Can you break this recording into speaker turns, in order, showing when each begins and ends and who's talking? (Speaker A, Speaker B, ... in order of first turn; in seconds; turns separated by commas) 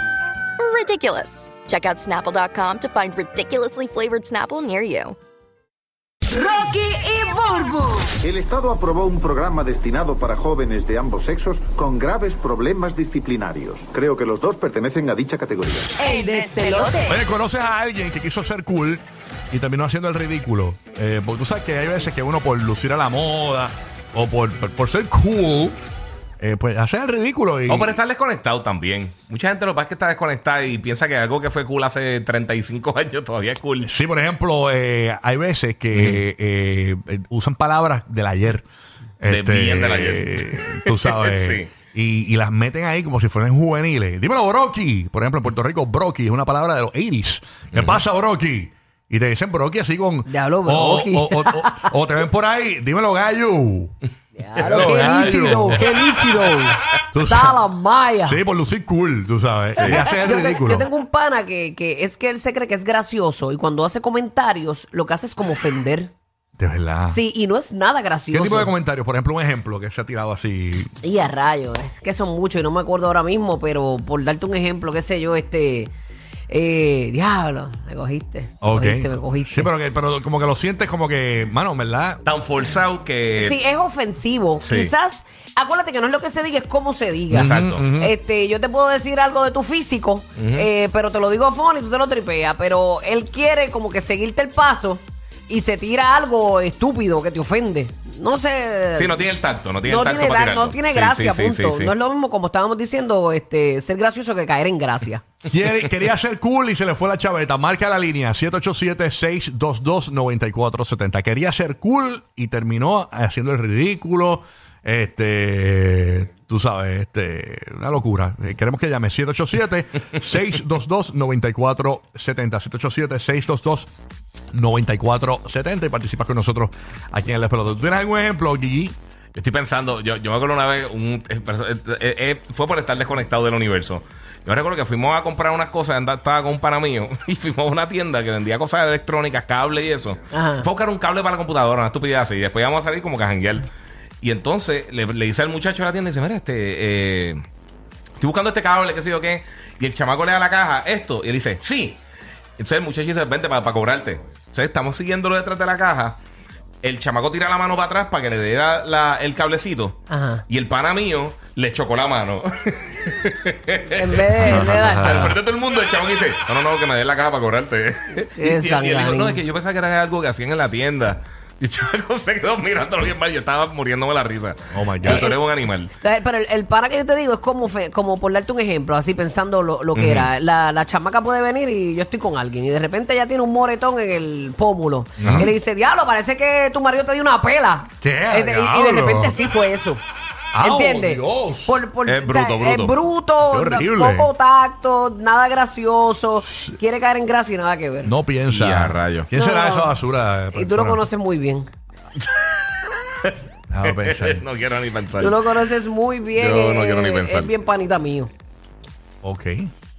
Speaker A: 0.6-5.2, Speaker B: 6.3-8.1, Speaker C: 8.2-15.9, Speaker D: 16.0-16.9, Speaker B: 16.0-17.1, Speaker E: 17.1-25.8, Speaker E: 26.4-28.0, Speaker F: 27.7-33.9, Speaker E: 33.8-38.7, Speaker F: 35.9-36.2, Speaker E: 39.2-53.9, Speaker F: 39.3-41.7, Speaker F: 47.8-48.0, Speaker D: 50.3-51.9, Speaker D: 54.4-58.4, Speaker E: 54.6-55.9, Speaker E: 57.1-57.6, Speaker E: 58.3-60.9, Speaker D: 59.8-66.1, Speaker F: 59.8-60.0, Speaker E: 66.6-67.2, Speaker D: 67.1-68.7, Speaker E: 68.3-70.9, Speaker D: 71.0-75.9, Speaker D: 76.5-79.7, Speaker E: 78.6-82.2, Speaker F: 82.2-83.6, Speaker D: 83.4-99.2, Speaker F: 84.6-84.9, Speaker F: 87.3-87.9, Speaker E: 87.3-88.2, Speaker F: 90.4-90.7, Speaker F: 99.0-101.9, Speaker D: 99.8-105.2, Speaker E: 105.5-123.9, Speaker E: 124.5-129.0, Speaker F: 129.3-143.7, Speaker D: 140.3-140.7, Speaker F: 144.2-147.4, Speaker F: 148.2-152.0, Speaker F: 152.6-156.2, Speaker F: 156.8-160.0, Speaker D: 160.1-160.4, Speaker F: 160.5-175.9, Speaker D: 163.9-165.3, Speaker E: 164.4-165.4, Speaker D: 168.4-169.4, Speaker E: 174.7-175.3, Speaker D: 175.0-175.4, Speaker D: 176.0-190.0, Speaker F: 179.9-180.3, Speaker F: 185.2-185.5, Speaker E: 185.2-185.5, Speaker E: 188.0-189.4, Speaker E: 190.5-191.8, Speaker D: 190.6-198.1, Speaker F: 192.1-193.0, Speaker E: 193.5-194.3, Speaker E: 198.1-201.1, Speaker F: 198.5-199.3, Speaker D: 199.3-200.0, Speaker D: 200.5-201.7, Speaker E: 203.7-204.4, Speaker F: 203.8-205.4, Speaker D: 205.2-208.3, Speaker F: 206.3-207.5, Speaker E: 209.2-209.7